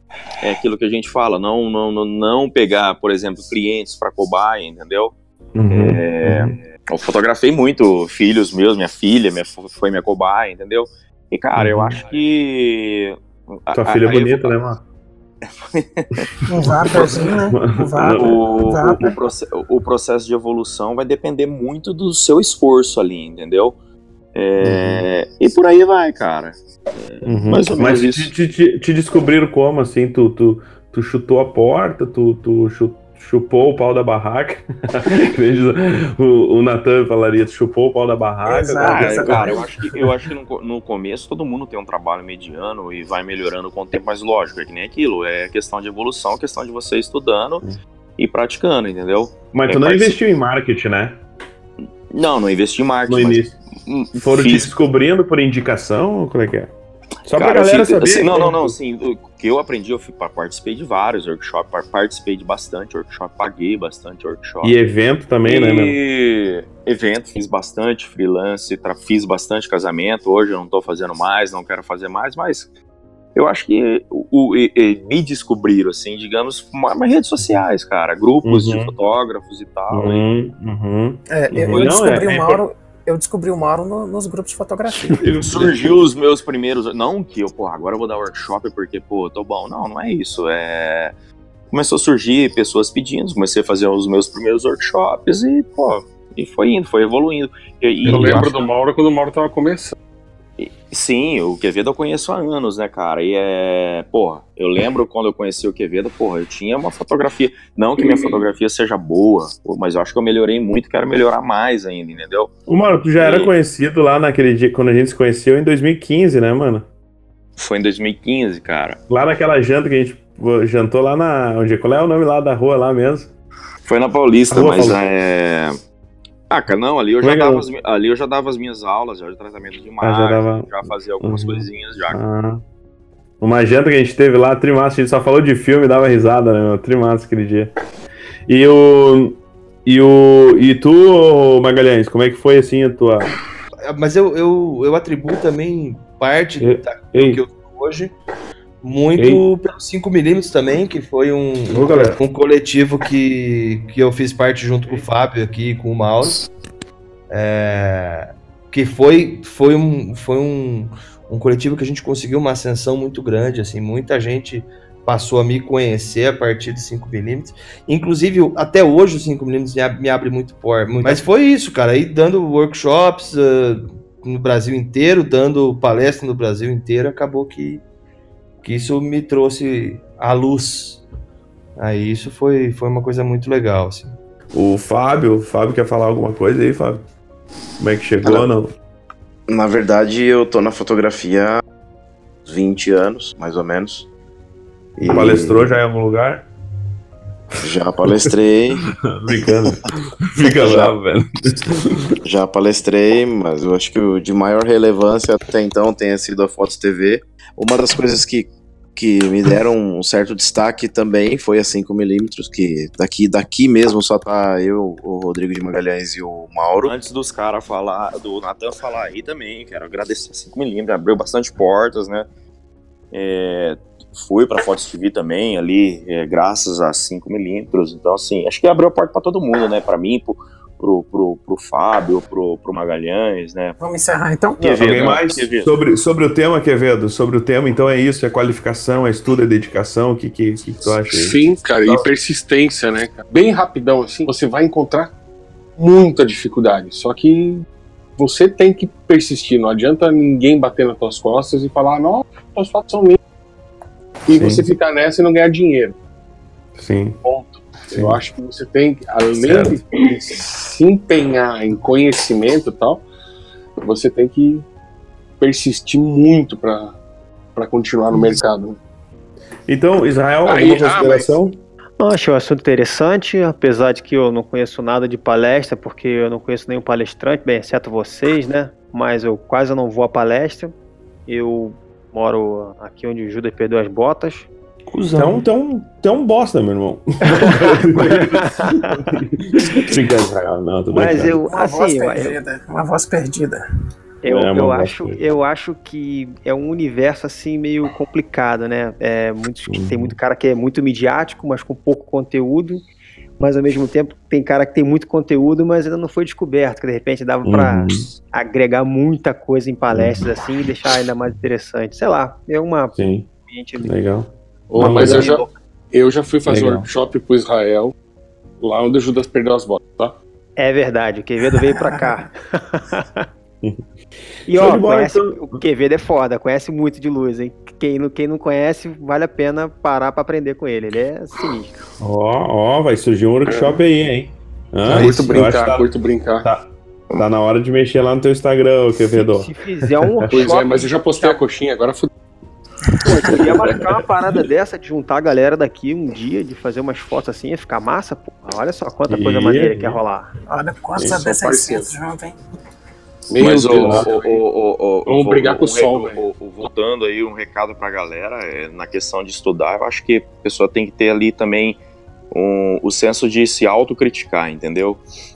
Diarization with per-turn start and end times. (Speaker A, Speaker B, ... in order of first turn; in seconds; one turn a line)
Speaker A: 0.4-14.5
Speaker B: 5.5-6.5
Speaker B: 11.5-12.0
Speaker B: 13.7-14.8
Speaker A: 15.4-16.3
Speaker B: 16.2-18.4
Speaker C: 16.5-19.2
Speaker A: 18.1-23.8
Speaker A: 24.3-28.3
Speaker B: 24.6-25.0
Speaker B: 27.2-39.6
Speaker C: 38.4-39.6
Speaker A: 38.8-47.6
Speaker A: 48.2-50.1
Speaker B: 49.5-51.2
Speaker A: 52.1-54.7
Speaker B: 53.1-53.5
Speaker B: 54.1-56.7
Speaker B: 57.2-58.8
Speaker A: 57.3-64.8
Speaker B: 64.6-66.0
Speaker A: 65.4-72.7
Speaker A: 73.3-80.2
Speaker B: 78.4-78.9
Speaker B: 79.9-82.6
Speaker C: 81.3-85.3
Speaker B: 84.9-85.7
Speaker A: 85.4-91.1
Speaker A: 91.7-98.7
Speaker D: 98.0-99.9
Speaker A: 100.6-112.5
Speaker B: 112.7-116.8
Speaker A: 113.2-113.5
Speaker A: 117.6-119.0
Speaker B: 119.1-123.3
Speaker A: 123.8-125.8
Speaker B: 124.5-125.0
Speaker A: 126.5-132.2
Speaker B: 127.2-127.6
Speaker B: 130.0-132.6
Speaker B: 133.4-137.7
Speaker B: 138.5-143.3
Speaker E: 143.9-148.1
Speaker B: 146.6-147.4
Speaker E: 148.8-156.4
Speaker B: 149.2-149.4
Speaker B: 151.7-152.2
Speaker E: 157.3-177.8
Speaker E: 178.6-181.0
Speaker E: 181.8-184.2
Speaker B: 184.5-187.0
Speaker B: 187.8-188.7
Speaker F: 188.2-188.5
Speaker F: 189.5-191.6
Speaker F: 192.4-194.1
Speaker F: 195.0-195.8
Speaker B: 195.0-196.4
Speaker F: 197.6-198.8
Speaker B: 198.8-202.1
Speaker F: 200.5-200.9
Speaker F: 202.2-216.9
Speaker A: 216.8-222.3
Speaker A: 223.1-233.8
Speaker C: 233.8-234.9
Speaker A: 234.6-235.7
Speaker B: 234.7-242.0
Speaker D: 240.8-245.1
Speaker D: 245.8-247.7
Speaker D: 248.2-253.2
Speaker D: 254.3-255.9
Speaker B: 254.3-254.7
Speaker B: 256.8-257.2
Speaker D: 257.2-263.0
Speaker B: 257.9-258.2
Speaker B: 259.3-260.0
Speaker D: 263.8-264.6
Speaker D: 265.4-267.0
Speaker D: 267.6-268.8
Speaker B: 269.7-271.6
Speaker D: 270.4-271.3
Speaker G: 272.0-280.7
Speaker G: 281.3-284.5
Speaker B: 284.9-291.4
Speaker G: 285.1-285.4
Speaker G: 287.4-289.1
Speaker G: 290.9-292.4
Speaker C: 291.4-293.6
Speaker G: 294.2-302.8
Speaker B: 294.3-295.2
Speaker B: 299.7-300.1
Speaker G: 303.4-313.9
Speaker B: 307.4-308.1
Speaker B: 309.9-310.2
Speaker B: 312.9-313.3
Speaker B: 313.8-315.3
Speaker D: 314.7-317.9
Speaker G: 314.9-315.6
Speaker B: 316.4-316.9
Speaker D: 318.6-320.1
Speaker G: 320.6-323.3
Speaker G: 324.5-331.8
Speaker B: 324.5-325.6
Speaker B: 332.0-335.9
Speaker D: 334.8-336.5
Speaker B: 336.4-340.5
Speaker G: 339.2-341.4
Speaker D: 340.3-342.1
Speaker G: 343.0-350.3
Speaker B: 343.6-343.9
Speaker B: 349.1-350.0
Speaker C: 350.5-352.4
Speaker D: 351.0-351.9
Speaker D: 353.3-354.4
Speaker A: 353.4-361.8
Speaker B: 353.7-354.1
Speaker D: 355.1-356.2
Speaker A: 362.3-365.0